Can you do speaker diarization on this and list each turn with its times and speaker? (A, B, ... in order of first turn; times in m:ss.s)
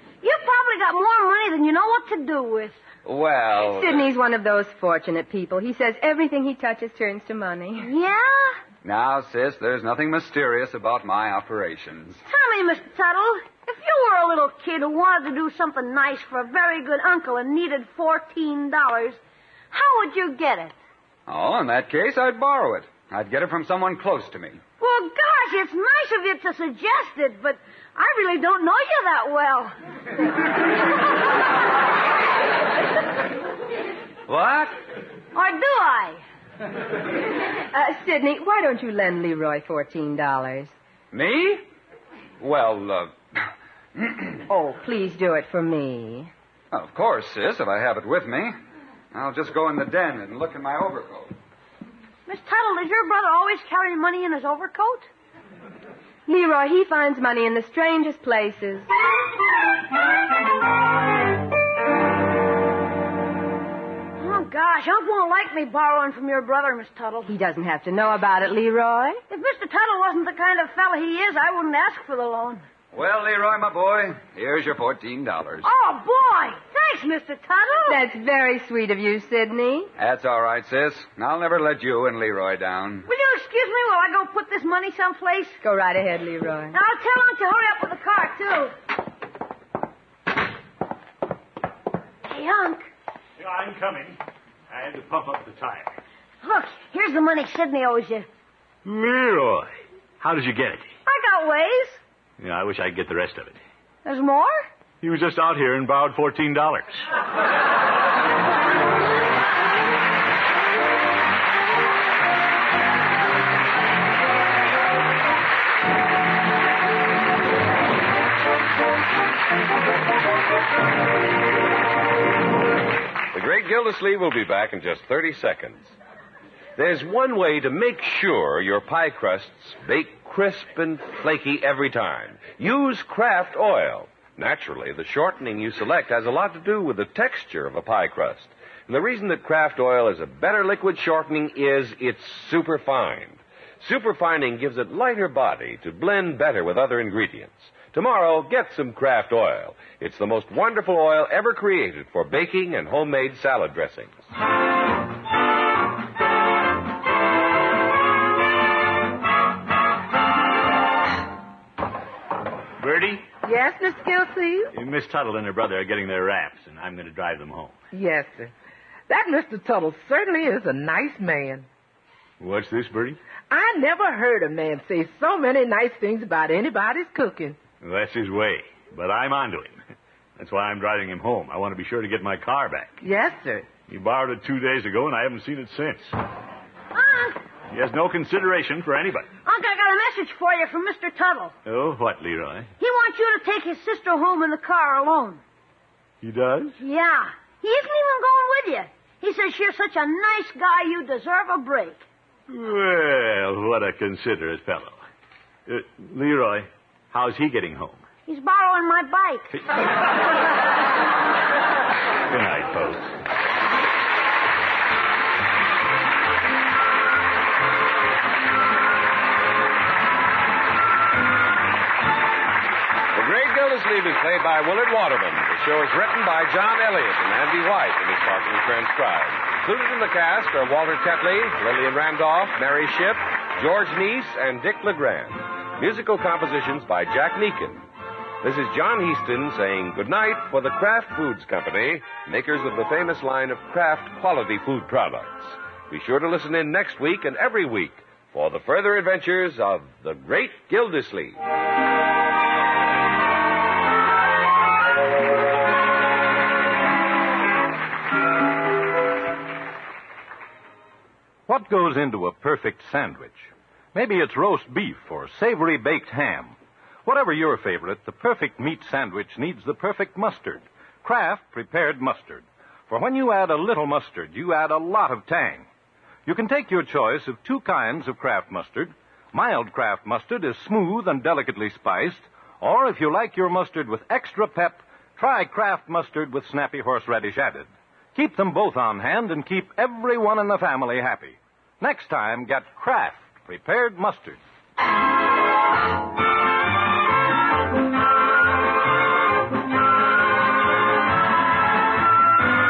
0:00.2-0:02.8 A
0:03.0-0:04.0 B
0:03.6-0:07.9 C
0:07.8-0:08.6 A
0:08.8-0:12.2 B
0:12.3-0:19.2 A
0:19.7-0:20.8 A
0:21.3-0:24.6 B
0:24.8-0:29.8 A
0:34.3-0:34.8 B
0:35.3-0:36.2 A
0:37.7-0:40.7 C
0:41.1-0:41.7 B
0:42.4-0:44.4 B
0:44.5-0:46.3 C
0:46.7-0:48.5 B
0:49.1-0:51.3 B
0:52.3-0:55.1 A
0:56.3-0:58.9 C
1:04.2-1:07.3 A
1:07.3-1:09.2 C
1:09.3-1:12.6 A
1:12.9-1:15.7 B
1:15.6-1:18.0 A
1:17.9-1:19.9 C
1:20.0-1:23.1 B
1:23.1-1:25.6 A
1:25.6-1:26.8 C
1:26.7-1:28.8 A
1:32.2-1:32.9 A
1:33.4-1:34.2 D
1:34.7-1:36.0 D
1:36.4-1:38.3 A
1:38.8-1:40.9 D
1:41.1-1:42.0 A
1:42.4-1:43.6 D
1:44.0-1:44.6 A
1:45.0-1:47.1 D
2:03.3-2:06.0 E
2:06.8-2:34.2 E
2:42.8-2:43.3 D
2:43.4-2:44.7 F
2:44.7-2:47.8 D
2:47.9-2:48.5 F
2:49.1-2:51.7 F
2:52.4-2:53.2 D
2:53.5-2:57.6 F
2:57.8-2:59.8 D
3:00.4-3:02.9 D
3:03.0-3:03.7 F
3:03.9-3:06.1 D
3:06.9-3:07.4 A
3:07.7-3:09.3 D
3:09.4-3:11.5 A
3:11.7-3:12.7 D
3:12.8-3:15.4 A
3:16.2-3:16.8 D
3:16.8-3:22.0 A
3:22.5-3:25.0 D
3:25.7-3:28.0 D
3:28.3-3:29.5 A
3:32.3-3:33.1 D
3:43.1-3:57.9 E
3:58.4-4:11.4 E
4:21.5-4:35.7 G
4:36.3-4:54.4 G